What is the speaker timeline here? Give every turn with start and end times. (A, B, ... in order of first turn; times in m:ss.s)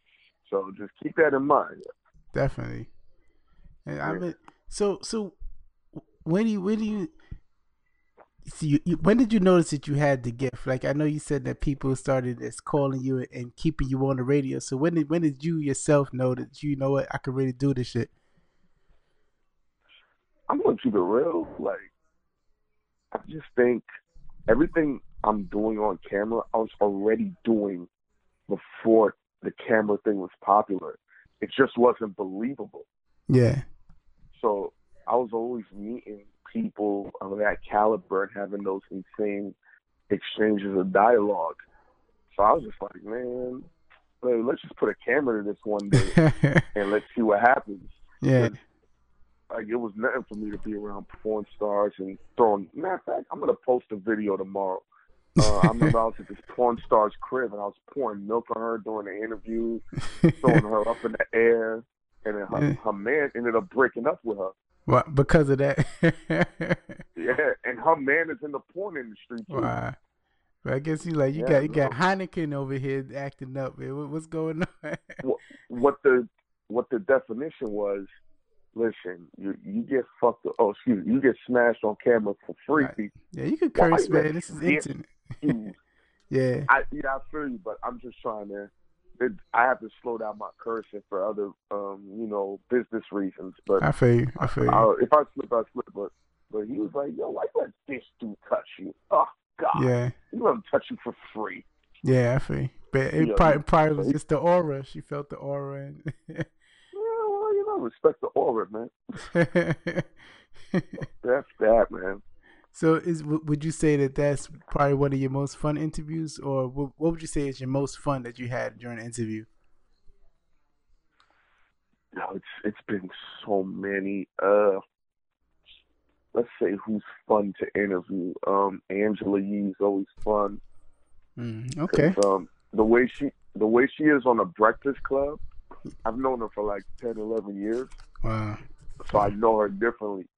0:00.5-0:01.8 A
0:02.3-0:02.9 B
0:03.9-0:05.4 B
0:06.0-0:07.1 B
0:08.4-0:18.1 B
0:20.5-0:21.9 A
0:23.1-0:23.8 A
0:24.5-0:27.9 A
0:28.5-0:32.9 A
0:33.3-0:33.6 B
0:34.3-0:39.6 A
0:40.1-0:41.6 A
0:42.3-0:43.7 A
0:44.2-0:46.2 A
0:46.0-0:46.7 B
0:46.8-0:48.6 A
0:48.2-0:48.6 B
0:49.5-0:54.8 A
0:55.4-0:59.8 A
0:55.4-0:56.0 B
1:00.2-1:00.6 B
1:00.4-1:04.5 A
1:04.9-1:07.0 B
1:07.2-1:09.7 A
1:09.5-1:10.0 B
1:10.6-1:15.2 B
1:11.4-1:12.0 A
1:15.2-1:18.1 A
1:18.7-1:23.1 A
1:22.8-1:25.6 B
1:23.8-1:24.9 A
1:25.4-1:25.7 A
1:26.3-1:26.7 B
1:26.7-1:33.9 A
1:33.8-1:34.9 B
1:34.4-1:41.7 A
1:39.7-1:40.1 B
1:42.0-1:46.5 B
1:43.2-1:44.2 A
1:46.9-1:48.9 A
1:49.3-1:50.1 B
1:50.7-1:51.0 B
1:51.1-1:52.2 A
1:52.7-1:59.5 B
2:02.1-2:04.8 A
2:06.3-2:10.6 A
2:11.4-2:12.2 B
2:11.9-2:15.4 A
2:16.0-2:17.9 A
2:18.2-2:18.6 B
2:19.0-2:20.3 A